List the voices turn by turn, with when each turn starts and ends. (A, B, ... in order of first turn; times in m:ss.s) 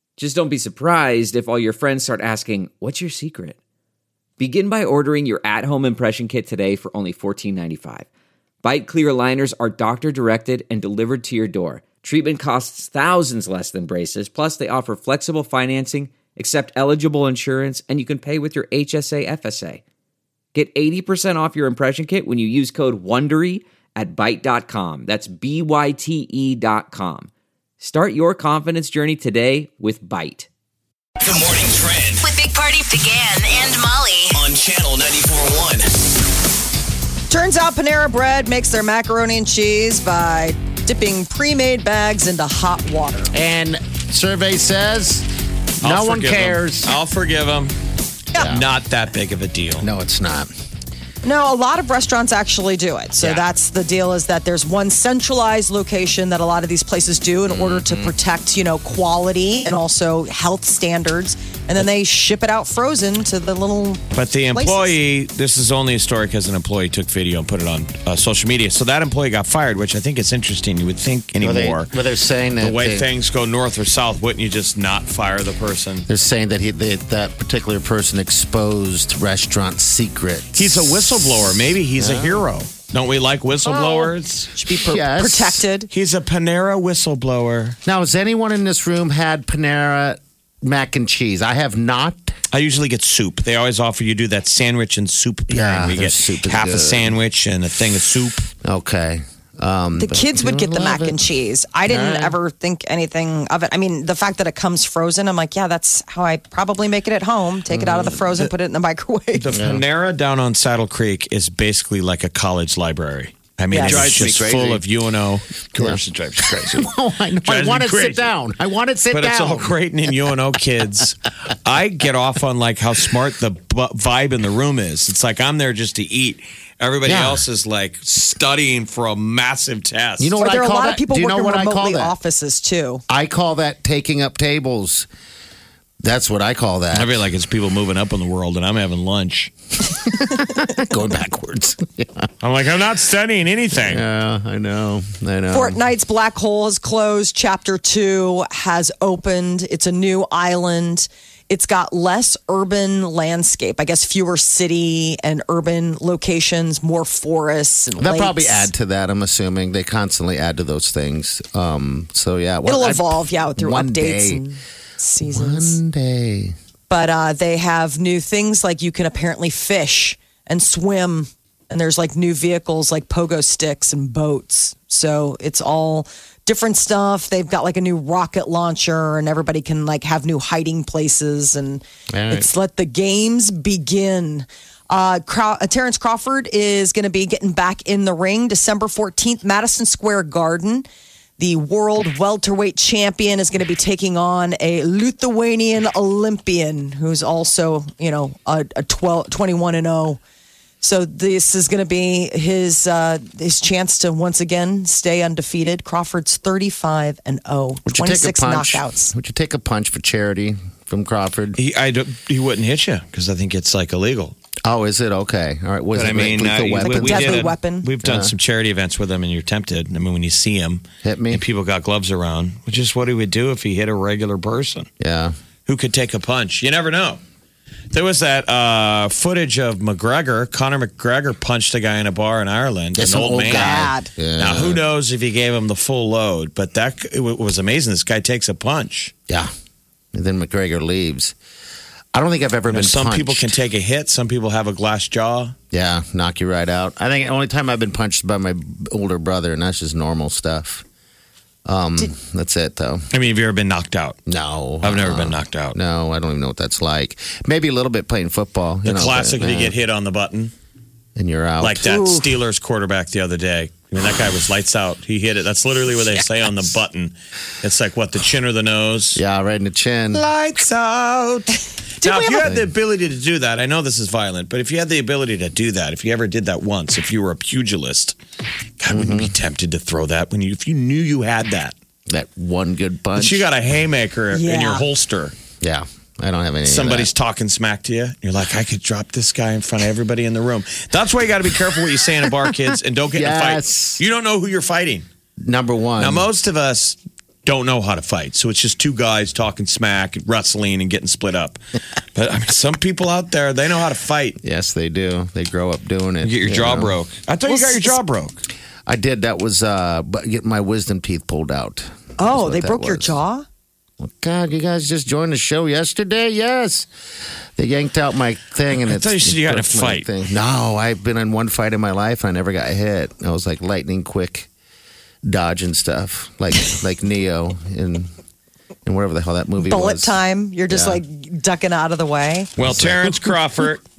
0:00.2-0:03.6 A
0:04.4-0:08.0 A
0:08.6-0:19.8 A
0:20.5-0:30.5 A
0:31.2-0:32.3 B
0:32.2-0:34.4 C
0:34.3-0:35.9 B
0:37.3-0:43.3 D
0:43.3-0:45.3 E
0:45.8-0:47.0 E
0:45.8-0:47.8 F
0:48.4-0:48.7 E
0:48.4-0:49.9 F
0:49.8-0:50.5 E
0:51.2-1:04.9 D
0:53.2-0:53.5 F
0:57.5-0:58.2 E
1:04.1-1:11.9 F
1:11.4-1:13.1 E
1:12.6-1:16.1 F
1:16.1-1:21.4 E
1:20.6-1:24.6 F
1:22.0-1:22.4 E
1:23.6-1:24.1 E
1:24.6-1:25.9 D
1:24.7-1:25.7 E
1:25.9-1:27.8 F
1:27.8-1:32.3 E
1:32.5-1:38.5 F
1:35.5-1:37.1 E
1:38.6-1:41.3 E
1:40.0-1:49.5 D
1:41.8-1:42.4 E
1:47.7-1:48.1 E
1:48.1-1:48.5 F
1:49.3-1:56.9 F
1:49.5-1:49.8 E
1:53.7-1:54.2 D
1:53.7-1:54.8 E
1:55.8-1:59.8 E
1:57.4-1:58.3 F
1:59.1-2:10.4 F
2:07.0-2:07.4 E
2:10.2-2:12.1 E
2:10.4-2:13.0 D
2:13.1-2:15.1 E
2:16.0-2:17.2 E
2:16.9-2:19.5 F
2:20.1-2:22.3 E
2:22.4-2:24.0 F
2:23.8-2:25.8 E
2:25.5-2:38.7 D
2:38.0-2:44.4 E
2:42.6-2:45.8 D
2:45.2-2:46.5 E
2:46.9-3:10.8 D
3:02.1-3:02.5 E
3:11.4-3:20.2 D
3:20.8-3:29.1 D
3:27.8-3:31.6 E
3:31.6-3:34.4 F
3:34.6-3:38.3 E
3:35.9-3:44.9 F
3:36.8-3:37.9 D
3:41.0-3:41.4 E
3:45.0-3:45.3 E
3:45.7-3:47.2 F
3:47.9-3:59.1 F
3:53.0-3:54.8 E
3:53.4-3:54.1 D
4:00.1-4:01.4 E
4:02.1-4:03.6 E
4:02.7-4:05.5 F
4:05.7-4:10.8 E
4:11.6-4:13.1 E
4:13.1-4:14.2 F
4:14.3-4:19.8 E
4:14.8-4:15.8 F
4:18.8-4:20.5 F
4:21.2-4:22.2 E
4:21.6-4:29.2 F
4:29.2-4:30.2 E
4:30.1-4:38.2 F
4:32.0-4:32.5 D
4:32.4-4:32.6 E
4:38.8-4:41.8 F
4:38.9-4:39.3 E
4:42.1-4:43.5 E
4:43.2-4:45.4 F
4:44.3-4:44.9 D
4:45.6-4:47.1 E
4:46.6-4:55.1 F
4:53.1-4:54.0 E
4:55.4-4:56.3 E
4:56.0-5:01.6 F
5:02.1-5:04.4 F
5:04.4-5:07.0 E
5:06.2-5:08.4 F
5:07.4-5:08.0 D
5:08.9-5:13.2 E
5:12.2-5:13.4 D
5:14.0-5:16.9 E
5:17.6-5:24.5 E
5:18.7-5:20.1 F
5:25.2-5:28.1 E
5:28.9-5:31.0 E
5:29.6-5:32.5 D
5:32.6-5:33.8 F
5:32.6-5:33.3 E